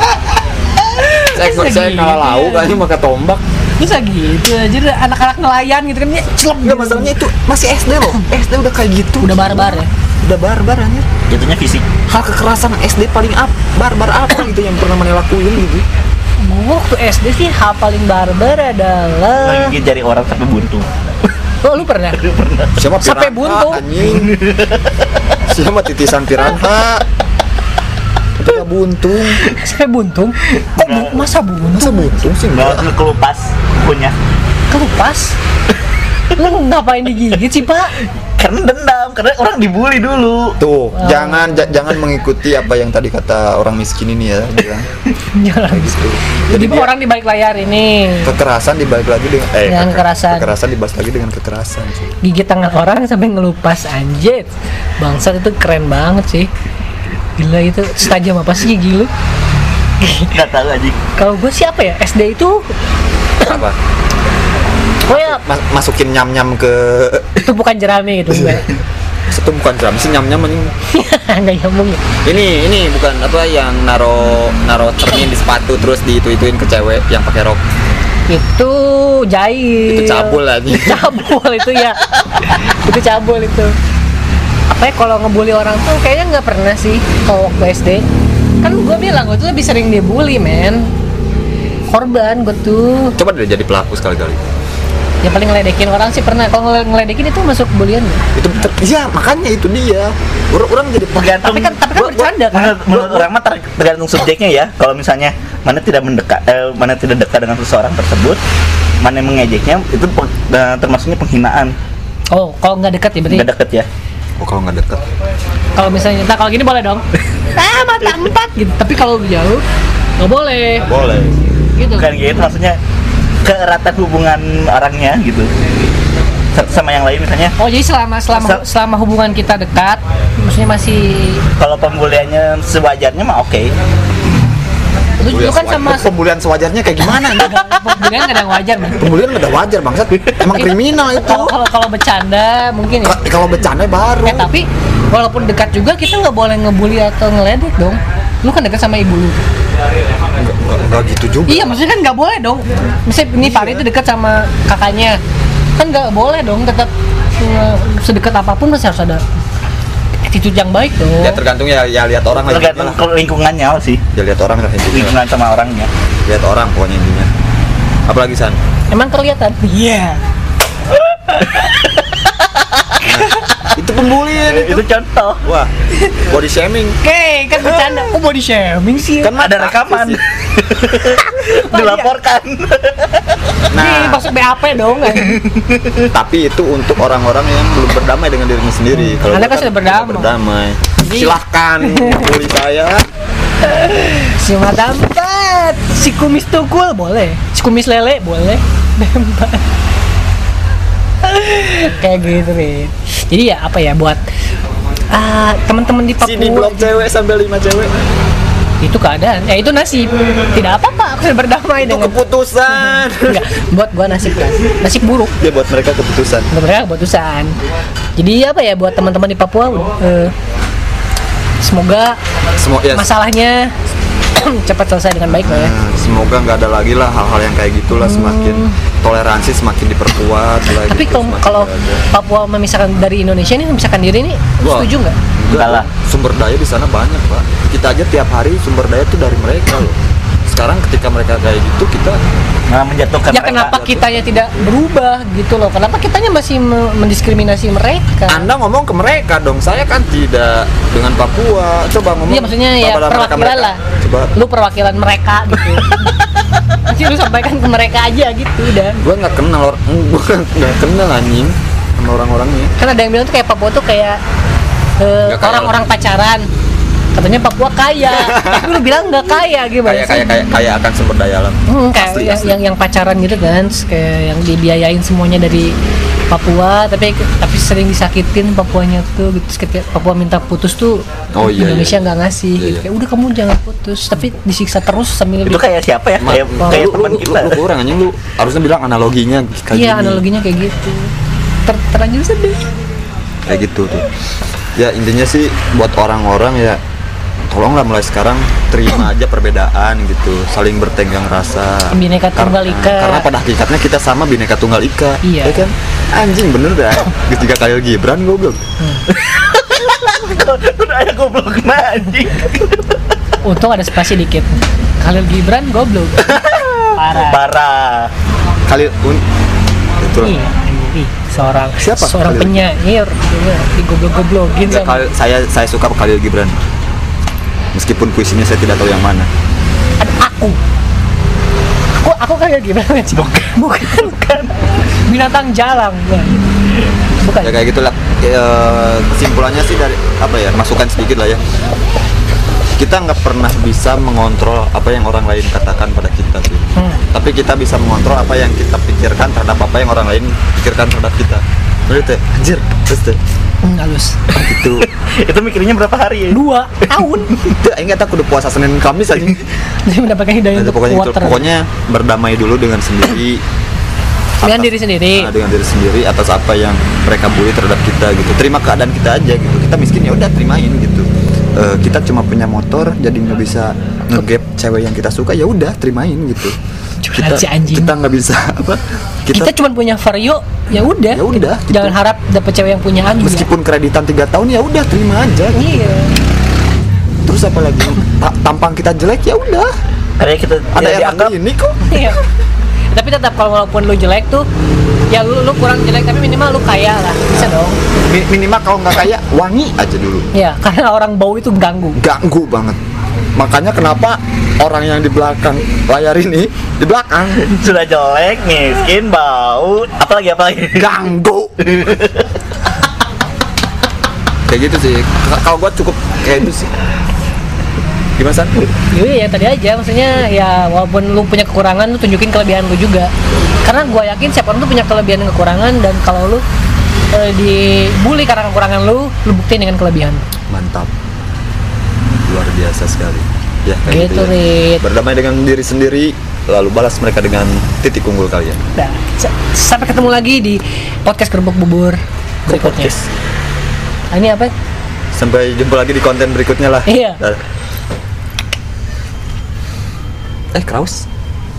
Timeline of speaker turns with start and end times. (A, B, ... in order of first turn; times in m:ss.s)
0:00.8-0:02.8 A
0:01.3-0:03.4 B
0:03.8-0:07.2 A
0:06.6-0:11.1 B
0:09.2-0:09.9 A
0:11.3-0:11.9 C
0:12.1-0:15.8 B
0:16.4-0:19.8 A
0:19.4-0:21.3 C
0:21.6-0:22.2 A
0:22.2-0:22.7 C
0:22.8-0:24.4 B
0:23.0-0:23.9 A
0:24.1-0:24.9 C
0:25.5-0:27.0 B
0:28.4-0:29.4 B
0:29.5-0:32.1 A
0:30.6-0:31.2 C
0:31.7-0:32.9 B
0:32.5-0:34.2 C
0:34.7-0:35.4 A
0:36.4-0:38.0 A
0:38.4-0:40.6 C
0:40.6-0:44.9 B
0:40.9-0:41.9 A
0:45.3-0:48.4 A
0:45.7-0:46.9 B
0:48.2-0:52.1 B
0:49.7-0:50.5 A
0:52.2-0:56.5 A
0:57.4-0:59.1 A
1:00.0-1:00.3 A
1:00.3-1:01.0 C
1:01.2-1:02.7 A
1:03.4-1:03.8 B
1:05.1-1:05.4 A
1:05.1-1:07.4 B
1:07.4-1:08.7 A
1:09.3-1:10.7 B
1:10.9-1:12.0 A
1:12.2-1:17.6 B
1:18.3-1:23.8 A
1:19.9-1:21.2 B
1:24.7-1:28.0 A
1:28.6-1:30.9 A
1:31.9-1:33.2 A
1:33.2-1:34.4 B
1:35.2-1:38.2 A
1:38.4-1:41.4 B
1:41.2-1:41.8 C
1:41.4-1:43.0 A
1:41.9-1:42.4 B
1:42.5-1:48.4 C
1:42.9-1:43.3 B
1:49.0-1:51.8 C
1:52.3-1:53.5 A
1:53.3-1:53.9 C
1:54.4-1:55.0 B
1:55.8-1:59.6 A
2:00.2-2:00.9 A
2:00.9-2:01.4 B
2:01.8-2:02.1 A
2:02.0-2:02.8 C
2:03.4-2:05.5 C
2:06.5-2:07.6 C
2:07.6-2:11.4 A
2:08.3-2:08.6 C
2:11.6-2:13.7 C
2:15.2-2:16.1 A
2:15.3-2:17.8 B
2:17.2-2:19.1 A
2:19.0-2:21.6 B
2:20.5-2:23.2 A
2:23.0-2:24.5 B
2:24.2-2:29.4 A
2:30.4-2:31.8 B
2:31.5-2:35.2 A
2:33.4-2:33.8 B
2:35.8-2:39.2 A
2:40.2-2:41.4 A
2:41.2-2:43.0 B
2:42.4-2:44.0 C
2:44.1-2:45.2 B
2:44.9-2:45.9 C
2:46.3-2:47.3 B
2:48.1-2:48.6 B
2:48.9-2:50.2 A
2:51.1-2:53.0 C
2:53.0-2:54.8 B
2:53.1-2:53.4 A
2:54.5-2:55.4 C
2:55.4-2:57.0 B
2:57.0-2:59.3 A
2:59.2-3:00.2 B
2:59.4-3:03.4 C
3:01.1-3:02.1 A
3:03.7-3:04.3 B
3:03.7-3:05.4 A
3:05.2-3:06.0 C
3:06.1-3:13.1 B
3:09.0-3:10.4 A
3:11.0-3:12.3 A
3:13.6-3:19.6 A
3:21.2-3:24.2 A
3:25.1-3:26.9 A
3:26.2-3:27.9 B
3:28.8-3:32.2 A
3:31.8-3:33.4 B
3:32.7-3:35.4 A
3:35.4-3:36.5 B
3:36.5-3:37.6 A
3:38.2-3:40.3 A
3:41.6-3:42.2 A
3:42.6-3:43.1 B
3:42.9-3:43.8 A
3:44.4-3:45.7 A
3:45.3-3:52.1 B
3:47.9-3:48.8 A
3:50.8-3:55.2 A
3:54.6-4:00.0 B
3:55.5-3:55.9 C
4:00.5-4:02.3 B
4:02.7-4:03.8 C
4:03.3-4:08.5 A
4:03.7-4:04.0 B
4:08.3-4:14.3 B
4:12.3-4:13.8 A
4:14.4-4:16.1 A
4:16.9-4:19.0 A
4:19.0-4:22.7 B
4:22.8-4:24.2 A
4:25.0-4:26.5 A
4:25.3-4:25.8 B
4:27.2-4:30.3 A
4:28.0-4:28.8 B
4:29.8-4:32.6 B
4:31.7-4:35.7 A
4:36.3-4:45.6 A
4:41.3-4:42.8 B
4:45.4-4:47.6 C
4:46.2-4:50.2 B
4:46.6-4:47.0 A
4:49.7-4:51.1 A
4:51.7-4:52.7 A
4:53.5-4:54.1 B
4:54.8-4:56.8 B
4:57.5-5:08.6 B
5:01.9-5:03.3 A
5:05.2-5:05.7 A
5:08.8-5:09.1 A
5:09.1-5:13.0 C
5:13.4-5:16.4 A
5:16.3-5:18.1 C
5:16.9-5:17.4 A
5:18.7-5:19.2 B
5:20.0-5:20.4 B
5:20.2-5:25.0 A
5:21.8-5:22.6 B
5:24.7-5:26.6 B
5:27.7-5:29.3 B
5:30.0-5:30.6 A
5:32.0-5:34.4 A
5:33.1-5:34.5 C
5:35.1-5:36.5 A
5:37.2-5:37.5 A
5:37.4-5:41.4 B
5:42.8-5:53.2 B
5:53.6-5:54.2 A
5:54.3-5:54.9 B
5:54.8-5:56.4 C
5:56.3-5:57.4 A
5:57.5-5:59.5 B
5:59.8-6:01.5 A
6:00.5-6:03.4 B
6:04.4-6:05.3 A
6:04.4-6:16.6 B
6:17.0-6:17.9 A
6:17.2-6:19.6 B
6:19.3-6:23.5 A
6:21.1-6:22.0 B
6:23.2-6:25.7 B
6:25.5-6:26.1 A
6:27.2-6:29.7 B
6:30.2-6:31.4 C
6:30.7-6:32.2 B
6:31.9-6:32.2 A
6:32.9-6:34.5 A
6:35.1-6:37.8 A
6:37.3-6:40.3 B
6:40.3-6:42.0 A
6:42.0-6:42.8 B
6:43.4-6:47.6 B
6:47.4-6:50.9 C
6:50.7-6:51.6 B
6:51.6-6:52.3 C
6:54.5-6:56.7 B
6:58.2-6:58.6 B
6:58.9-7:03.1 A
7:03.6-7:06.4 A
7:07.1-7:10.3 A
7:10.5-7:10.9 B
7:12.2-7:18.6 B
7:13.9-7:14.8 A
7:18.8-7:22.9 A
7:22.5-7:23.0 B
7:24.1-7:24.5 A
7:25.2-7:27.4 B
7:26.9-7:27.2 A
7:30.5-7:31.1 B